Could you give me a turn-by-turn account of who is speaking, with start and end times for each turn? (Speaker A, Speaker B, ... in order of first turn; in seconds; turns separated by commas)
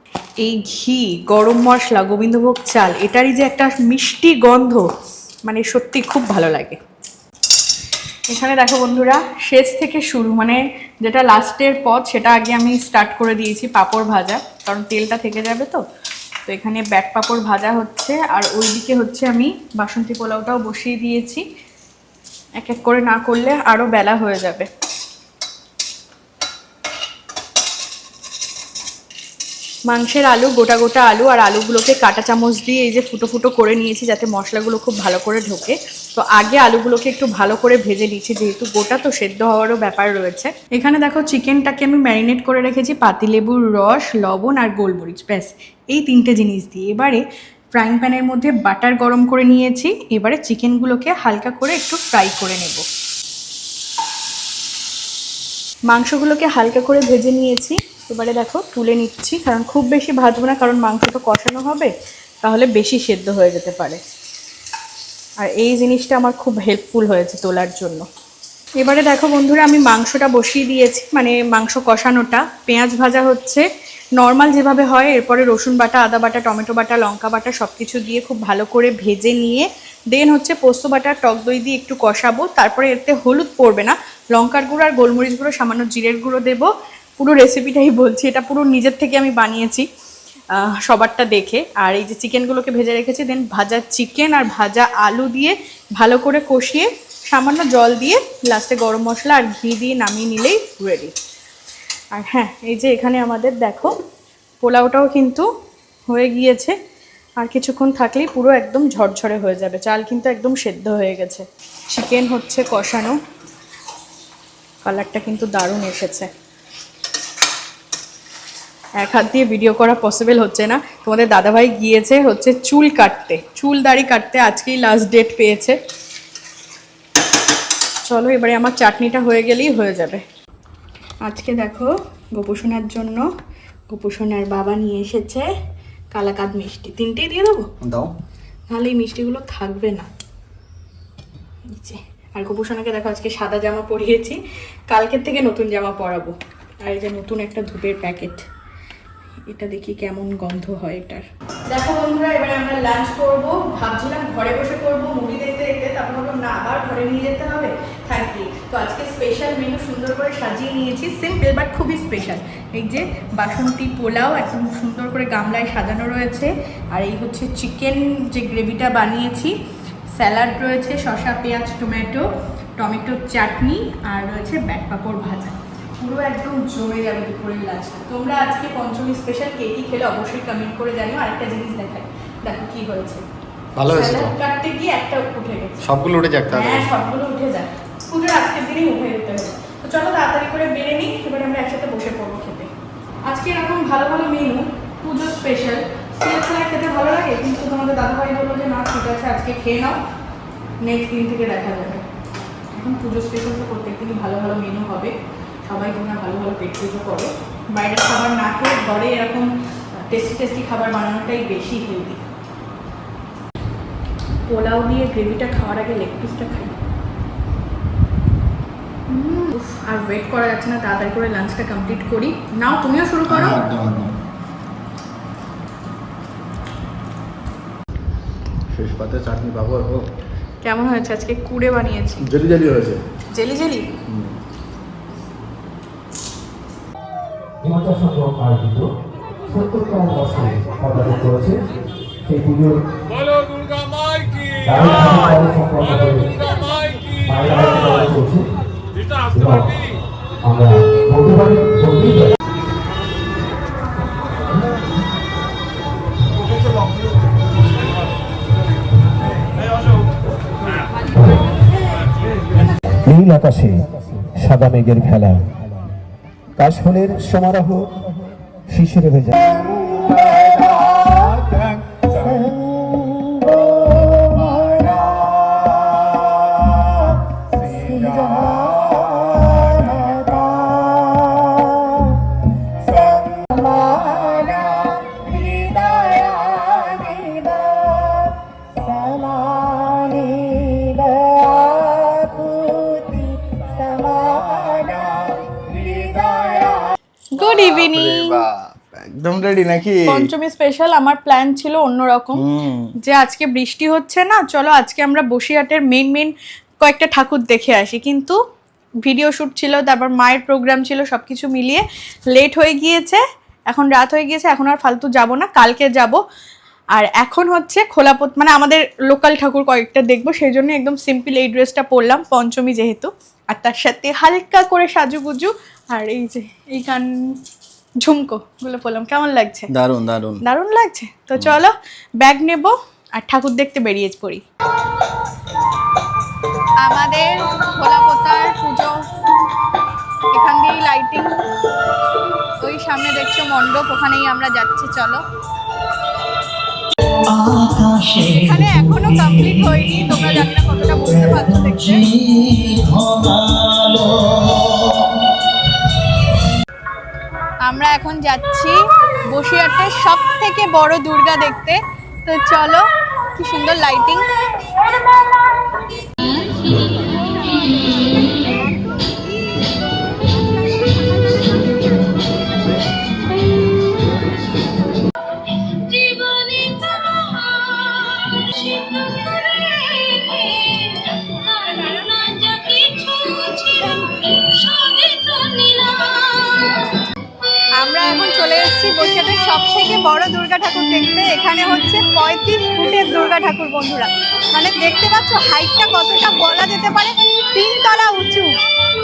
Speaker A: 0.4-4.9, Speaker A: 5.5-6.8, Speaker A: 8.3-15.8, Speaker A: 16.5-21.4, Speaker A: 22.6-24.7, Speaker A: 29.9-47.2, Speaker A: 47.7-52.9, Speaker A: 55.9-64.0, Speaker A: 65.4-68.0, Speaker A: 68.8-73.7, Speaker A: 74.2-89.9, Speaker A: 90.5-101.1, Speaker A: 102.1-104.0, Speaker A: 104.6-105.5, Speaker A: 106.1-106.8, Speaker A: 107.4-113.2, Speaker A: 114.8-116.3, Speaker A: 119.0-125.8, Speaker A: 128.1-130.2, Speaker A: 131.3-133.2, Speaker A: 133.9-135.5, Speaker A: 136.1-137.7, Speaker B: 137.9-138.1, Speaker A: 138.7-140.1, Speaker A: 141.8-144.4, Speaker A: 144.9-148.4, Speaker A: 149.5-169.6, Speaker A: 170.2-172.3, Speaker A: 172.8-183.2, Speaker B: 183.8-184.3, Speaker A: 183.9-185.8, Speaker B: 185.9-186.8, Speaker A: 186.5-192.7, Speaker A: 193.3-200.0, Speaker A: 200.8-202.1, Speaker A: 202.7-205.1, Speaker A: 205.7-209.5, Speaker A: 210.1-212.2, Speaker A: 214.5-216.7, Speaker A: 219.1-223.6, Speaker B: 223.3-224.1, Speaker B: 228.8-230.0, Speaker A: 230.6-232.2, Speaker B: 232.3-233.0, Speaker A: 233.3-233.9, Speaker C: 237.6-238.9, Speaker C: 239.5-241.7, Speaker C: 242.3-242.8, Speaker C: 244.6-246.5, Speaker C: 247.2-248.5, Speaker C: 249.3-249.8, Speaker C: 250.4-252.3, Speaker C: 263.1-265.6, Speaker C: 266.6-268.0, Speaker C: 268.7-269.6, Speaker A: 297.4-298.4, Speaker B: 297.4-298.5, Speaker B: 299.0-300.1, Speaker A: 300.1-302.4, Speaker B: 302.4-302.9, Speaker A: 303.0-308.4, Speaker A: 309.0-316.2, Speaker A: 316.9-327.1, Speaker A: 328.0-329.7, Speaker B: 329.7-330.3, Speaker A: 330.4-334.4, Speaker A: 336.8-339.0, Speaker A: 340.3-341.3, Speaker A: 342.6-345.2, Speaker A: 348.1-352.1, Speaker A: 357.6-358.8, Speaker A: 359.3-362.9, Speaker A: 363.4-364.3, Speaker A: 376.1-376.8, Speaker A: 379.5-386.9, Speaker A: 387.8-398.5